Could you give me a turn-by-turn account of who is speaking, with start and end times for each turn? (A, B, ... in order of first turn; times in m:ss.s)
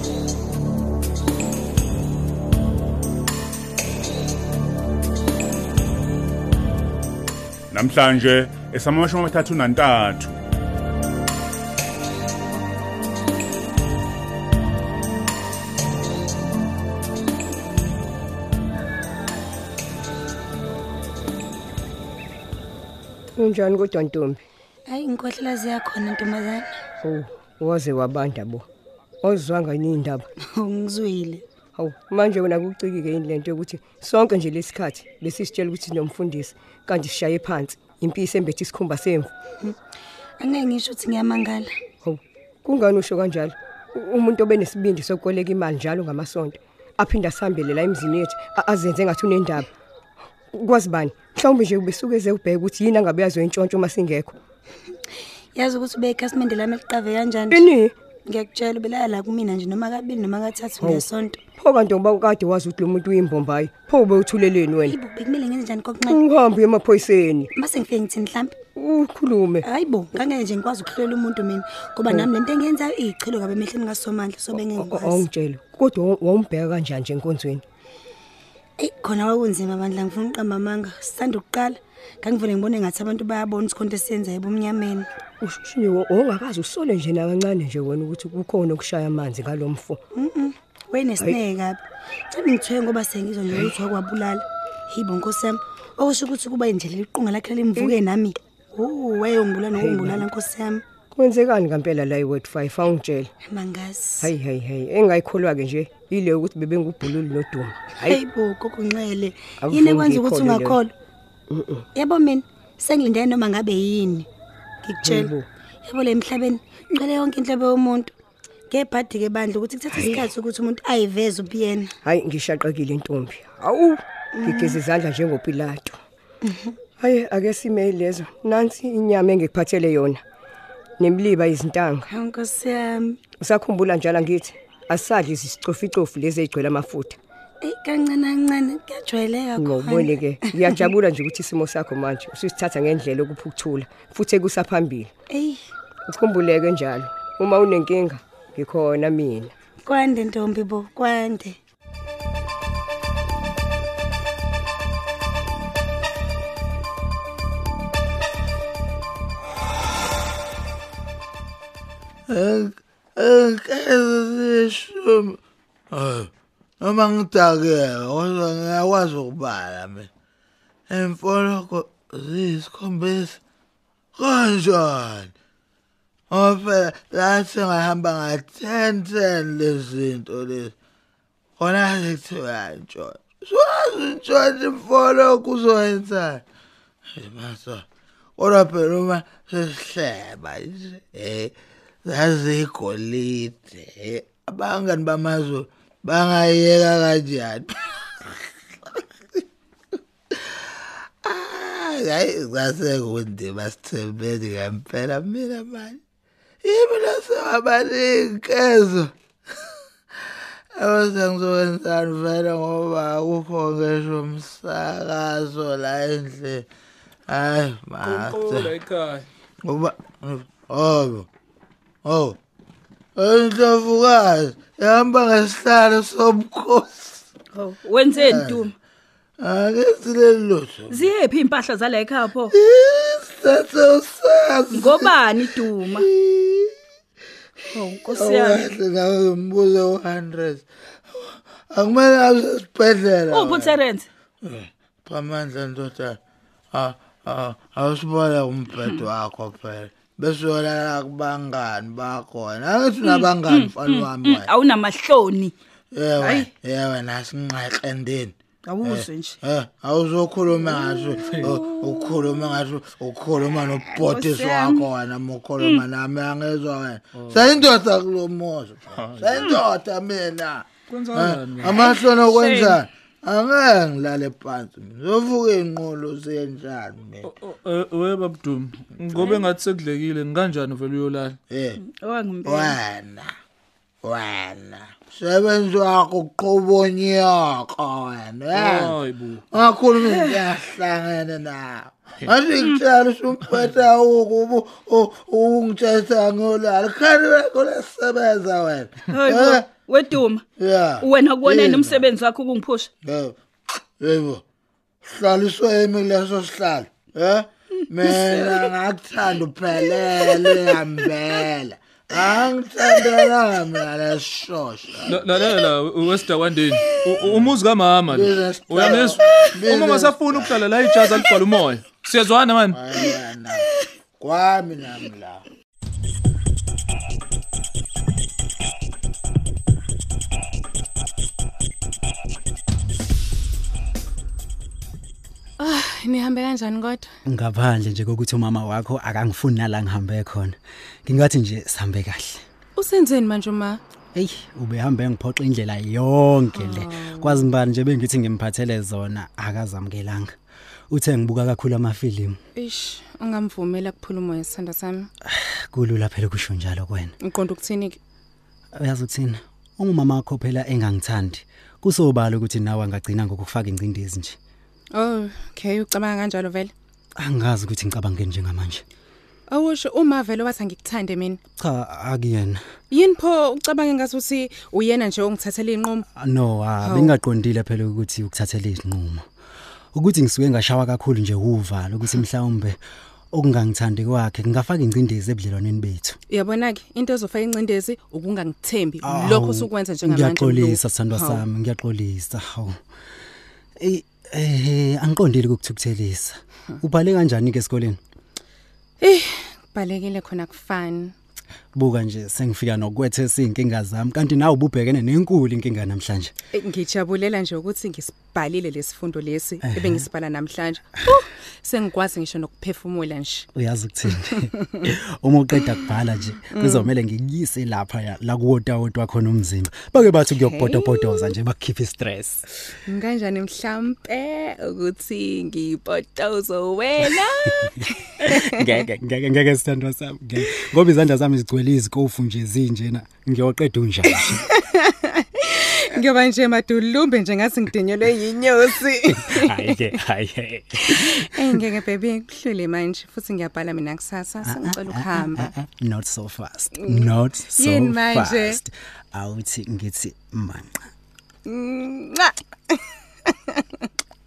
0:07.7-0:10.4 A
0:23.4-0:24.4 B
0:24.9-0:26.7 C
0:27.0-0:28.7 B
0:29.2-0:30.3 B
0:30.6-0:31.4 C
0:31.8-0:39.3 B
0:40.4-0:41.7 C
0:42.0-0:49.7 B
0:50.5-0:54.4 B
0:55.6-0:57.7 C
0:57.5-0:57.9 B
0:58.3-1:01.4 C
1:00.8-1:05.0 B
1:04.9-1:06.2 C
1:06.1-1:07.5 B
1:07.6-1:08.6 C
1:08.8-1:09.7 B
1:09.6-1:15.3 C
1:14.5-1:17.6 B
1:18.8-1:25.1 C
1:25.4-1:30.0 B
1:30.2-1:31.8 C
1:32.3-1:40.8 C
1:33.5-1:33.8 B
1:37.7-1:38.0 B
1:39.7-1:40.3 B
1:41.1-1:43.3 B
1:43.5-1:44.3 C
1:44.2-1:48.2 B
1:48.0-1:50.9 C
1:49.6-1:50.8 B
1:51.5-1:51.9 B
1:52.0-1:54.3 C
1:54.8-1:55.3 C
1:55.0-1:55.5 B
1:55.8-1:58.1 C
1:58.7-2:01.9 C
1:59.9-2:00.3 B
2:02.0-2:06.0 B
2:04.4-2:04.8 C
2:07.0-2:10.2 B
2:11.0-2:12.1 B
2:12.1-2:13.2 C
2:13.3-2:17.2 B
2:17.6-2:20.8 C
2:19.6-2:25.1 B
2:25.3-2:25.6 C
2:26.1-2:29.5 B
2:29.9-2:31.6 C
2:42.3-2:45.4 D
2:45.9-2:46.3 D
2:46.8-2:50.1 D
2:50.9-2:53.4 D
2:54.2-2:55.3 D
2:56.3-3:00.7 D
3:01.6-3:06.4 D
3:07.2-3:07.8 D
3:08.4-3:11.5 D
3:12.1-3:18.3 D
3:21.2-3:26.0 D
3:26.6-3:29.1 D
3:30.8-3:36.7 D
3:37.3-3:38.8 D
3:38.0-3:39.3 E
3:39.6-3:41.3 D
3:42.0-3:42.4 D
3:43.2-3:47.2 D
3:47.6-3:48.7 F
3:48.1-3:48.6 D
3:49.4-3:51.1 D
3:50.9-3:52.5 F
3:52.5-3:55.1 D
3:54.7-3:56.1 F
3:55.8-3:56.8 D
3:57.7-3:58.7 F
3:58.1-4:03.8 D
4:03.3-4:04.1 F
4:04.4-4:06.2 D
4:06.7-4:14.5 D
4:13.0-4:15.5 F
4:15.9-4:37.3 D
4:16.2-4:16.5 G
4:18.7-4:19.4 F
4:23.9-4:24.9 F
4:29.4-4:29.6 F
4:30.9-4:31.7 E
4:31.7-4:32.8 F
4:37.2-4:41.4 E
4:39.2-4:39.4 F
4:41.5-4:41.8 D
4:41.8-4:42.8 F
4:42.4-4:43.3 D
4:44.0-4:49.0 D
4:48.5-4:49.4 E
4:49.5-4:59.7 D
4:50.0-4:50.4 F
4:59.1-5:00.4 F
5:00.6-5:02.1 D
5:01.0-5:02.9 F
5:03.0-5:03.4 D
5:04.0-5:04.4 D
5:05.0-5:15.3 D
5:08.0-5:08.7 F
5:09.8-5:10.7 F
5:13.0-5:13.3 F
5:15.1-5:22.8 E
5:17.3-5:17.5 D
5:18.1-5:20.6 D
5:21.0-5:21.3 F
5:22.7-5:23.7 D
5:24.2-5:25.4 D
5:35.6-5:37.1 G
5:37.3-5:42.4 H
5:42.8-5:43.8 G
5:44.2-5:50.3 H
5:46.5-5:47.5 G
5:50.9-5:52.4 H
5:52.6-5:55.1 G
5:55.2-5:57.1 H
5:57.2-5:58.0 G
5:58.8-6:04.4 H
6:04.9-6:06.7 G
6:07.2-6:08.8 H
6:09.5-6:11.4 G
6:11.6-6:12.6 H
6:12.9-6:16.1 G
6:16.2-6:19.2 H
6:16.8-6:17.1 G
6:19.9-6:22.8 H
6:23.3-6:26.2 H
6:26.3-6:31.4 G
6:29.0-6:32.8 H
6:33.8-6:38.0 H
6:39.0-6:41.1 G
6:41.8-6:46.3 H
6:46.5-6:53.5 G
6:49.6-6:50.1 H
6:53.5-7:02.4 H
6:56.5-6:56.9 G
7:00.3-7:01.4 G
7:02.9-7:08.4 G
7:08.2-7:14.4 H
7:14.2-7:19.9 G
7:19.1-7:21.2 H
7:20.8-7:25.5 G
7:24.4-7:30.8 H
7:26.8-7:28.6 G
7:31.4-7:33.8 G